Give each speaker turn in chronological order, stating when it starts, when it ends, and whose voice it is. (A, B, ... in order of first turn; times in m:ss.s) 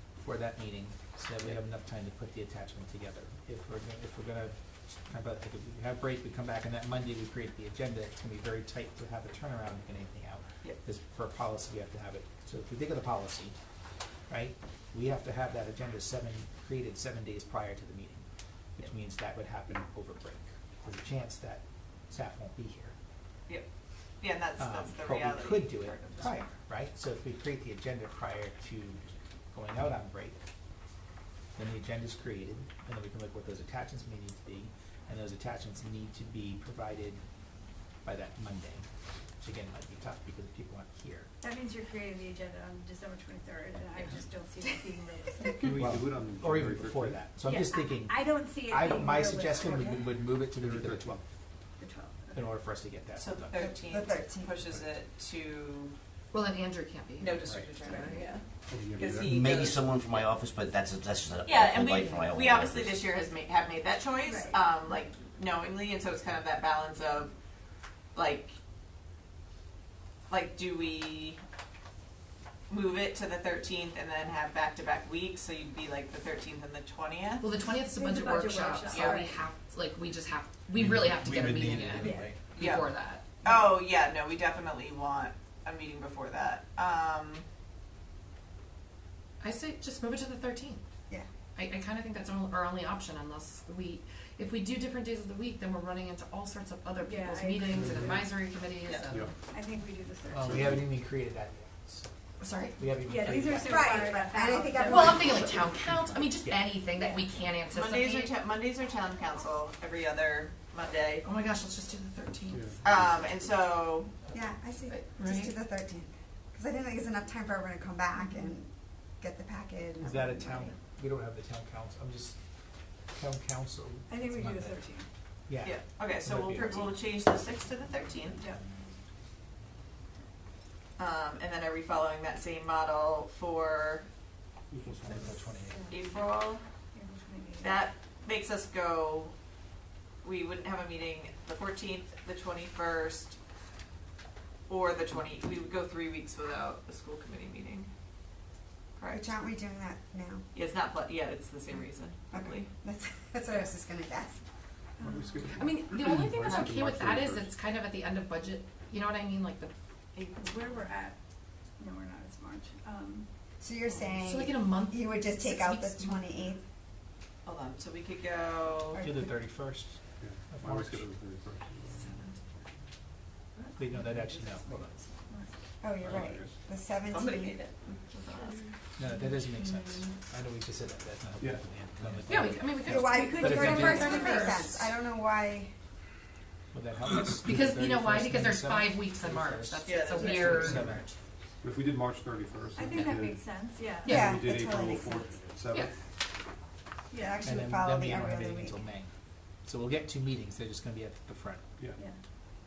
0:00.2-0:13.6 A
0:14.3-0:18.2 A
0:18.8-0:23.0 A
0:24.2-0:26.5 B
0:24.6-0:30.4 A
0:31.6-0:37.2 A
0:38.0-0:38.9 A
0:39.4-0:41.3 A
0:41.4-0:45.7 C
0:45.6-0:47.3 D
0:45.7-0:51.2 A
0:47.4-0:50.2 C
0:50.5-0:51.2 D
0:51.8-0:52.6 C
0:52.3-0:53.7 A
0:53.2-0:56.0 B
0:53.6-0:54.6 E
0:56.3-0:58.3 F
0:57.2-0:59.9 B
0:57.9-0:58.4 C
0:58.7-0:59.3 D
0:59.0-1:03.0 G
1:01.4-1:07.3 B
1:04.2-1:04.6 C
1:08.2-1:08.5 B
1:10.3-1:11.4 B
1:12.7-1:17.5 B
1:17.4-1:23.2 F
1:17.8-1:19.5 C
1:18.9-1:19.2 B
1:20.8-1:22.3 G
1:21.1-1:22.0 A
1:21.9-1:22.4 C
1:22.6-1:22.9 B
1:23.4-1:27.4 B
1:23.4-1:23.8 E
1:29.4-1:30.8 F
1:31.6-1:39.3 F
1:37.0-1:37.9 C
1:37.7-1:38.4 D
1:39.4-1:40.8 C
1:40.3-1:40.9 D
1:40.3-1:42.1 A
1:42.4-1:42.8 F
1:42.8-1:44.1 A
1:43.0-1:45.4 C
1:43.6-1:45.7 E
1:44.9-1:48.4 F
1:45.9-1:46.7 A
1:47.7-1:51.3 B
1:51.2-1:52.8 F
1:52.5-1:53.2 D
1:52.8-1:54.2 B
1:54.3-2:00.8 E
1:54.9-1:55.6 F
1:58.2-1:58.5 C
2:00.0-2:02.4 A
2:03.1-2:04.8 A
2:04.1-2:05.1 C
2:05.5-2:07.0 A
2:05.6-2:08.4 B
2:08.4-2:08.8 C
2:11.0-2:14.1 B
2:14.7-2:15.4 D
2:15.0-2:15.8 A
2:15.7-2:16.2 C
2:15.9-2:16.6 B
2:16.9-2:17.8 C
2:17.6-2:19.3 B
2:20.2-2:23.4 B
2:24.7-2:27.9 B
2:29.0-2:29.3 B
2:29.1-2:30.4 E
2:30.5-2:32.7 B
2:32.3-2:34.4 E
2:35.0-2:35.4 C
2:35.0-2:37.5 D
2:35.5-2:39.7 F
2:40.1-2:40.9 B
2:40.4-2:41.2 C
2:41.8-2:43.3 C
2:43.6-2:46.6 E
2:44.2-2:46.5 F
2:47.4-2:49.0 B
2:48.9-2:49.3 E
2:49.0-2:51.1 A
2:50.2-2:52.2 D
2:51.9-2:52.3 F
2:53.8-2:55.0 A
2:55.8-2:57.6 E
2:56.0-2:56.6 D
2:57.1-2:58.7 B
2:59.0-3:04.6 A
3:01.4-3:01.6 D
3:02.3-3:04.9 F
3:02.8-3:05.7 E
3:02.9-3:04.6 C
3:06.7-3:11.1 A
3:07.4-3:11.2 F
3:09.8-3:10.8 B
3:11.6-3:15.9 D
3:12.8-3:14.2 C
3:12.9-3:13.2 F
3:14.0-3:14.4 F
3:14.0-3:15.3 E
3:17.1-3:18.9 E
3:17.4-3:19.1 A
3:19.6-3:21.6 A
3:21.8-3:22.0 D